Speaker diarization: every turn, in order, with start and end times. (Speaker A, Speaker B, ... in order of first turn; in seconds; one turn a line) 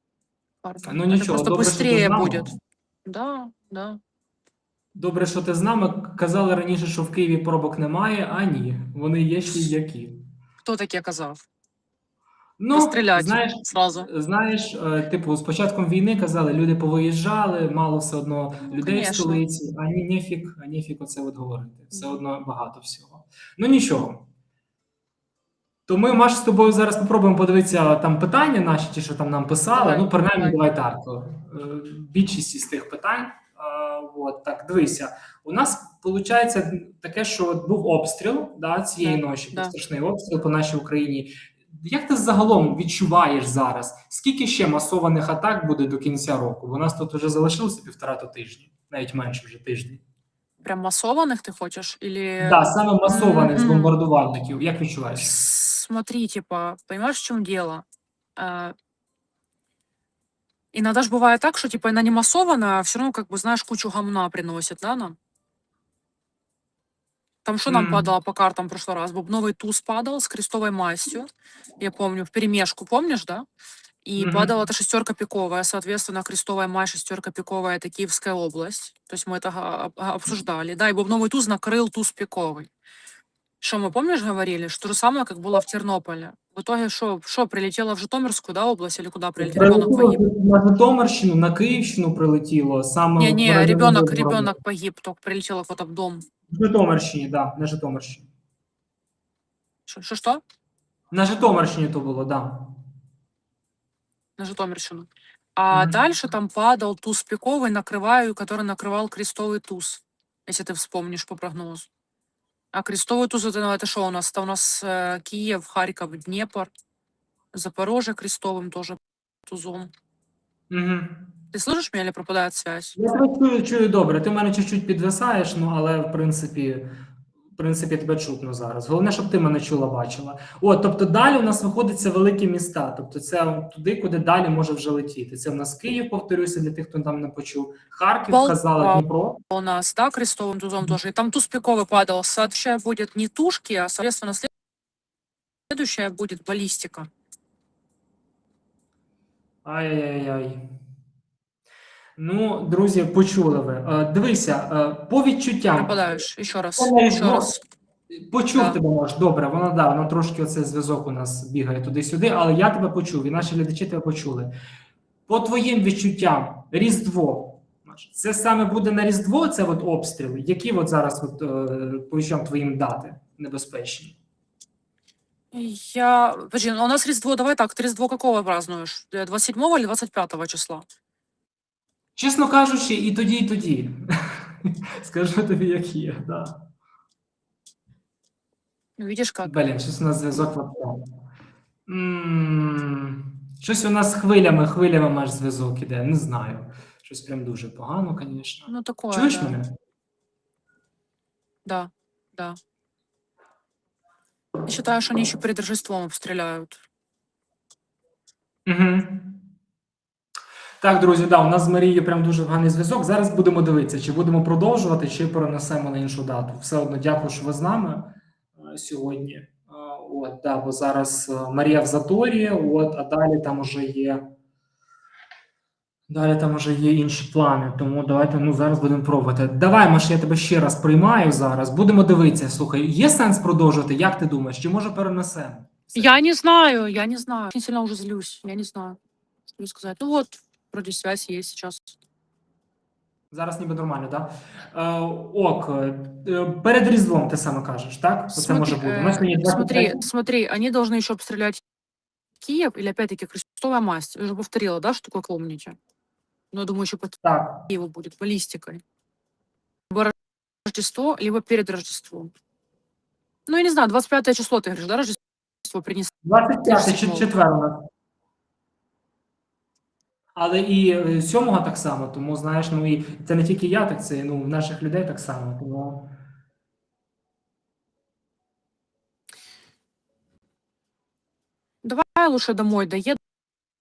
Speaker A: 0.6-2.5
Speaker B: 0.9-2.5
Speaker A: 3.0-4.0
Speaker B: 4.9-10.2
Speaker A: 10.6-11.4
Speaker B: 12.6-24.2
Speaker A: 12.7-14.1
Speaker A: 18.7-19.4
Speaker B: 25.9-50.0
Speaker A: 29.7-30.6
Speaker A: 39.0-39.7
Speaker A: 50.6-54.0
Speaker B: 52.4-55.3
Speaker A: 55.2-57.8
Speaker A: 58.4-58.7
Speaker A: 60.7-65.2
Speaker A: 67.4-73.5
Speaker B: 67.7-68.1
Speaker A: 74.0-82.7
Speaker B: 74.2-74.5
Speaker A: 83.6-90.2
Speaker B: 89.4-94.5
Speaker A: 93.2-96.2
Speaker B: 96.5-98.3
Speaker A: 99.9-100.4
Speaker B: 101.1-102.7
Speaker A: 104.4-111.9
Speaker B: 105.7-106.0
Speaker A: 112.7-116.7
Speaker A: 117.5-119.9
Speaker B: 120.7-121.2
Speaker A: 121.5-123.0
Speaker B: 123.0-126.9
Speaker B: 127.6-139.4
Speaker A: 138.3-144.5
Speaker A: 145.7-147.1
Speaker B: 149.6-150.6
Speaker B: 152.2-156.0
Speaker A: 155.7-157.6
Speaker B: 156.8-157.5
Speaker B: 158.1-164.5
Speaker A: 158.5-158.8
Speaker B: 165.3-174.1
Speaker A: 175.5-180.8
Speaker B: 182.2-184.0
Speaker B: 184.6-186.6
Speaker A: 189.0-189.6
Speaker B: 189.4-191.0
Speaker B: 191.9-199.7
Speaker A: 198.7-199.6
Speaker A: 201.6-202.6
Speaker A: 204.7-206.8
Speaker B: 208.7-209.4
Speaker B: 210.8-224.2
Speaker B: 226.1-236.2
Speaker A: 235.9-239.0
Speaker A: 239.5-242.0
Speaker B: 243.3-250.0
Speaker A: 248.3-251.6
Speaker A: 252.4-255.8
Speaker A: 256.5-258.8
Speaker B: 257.2-257.6
Speaker A: 260.6-262.3
Speaker A: 263.5-266.1
Speaker B: 266.2-267.8
Speaker A: 266.6-267.3
Speaker B: 270.3-276.1
Speaker A: 281.8-283.2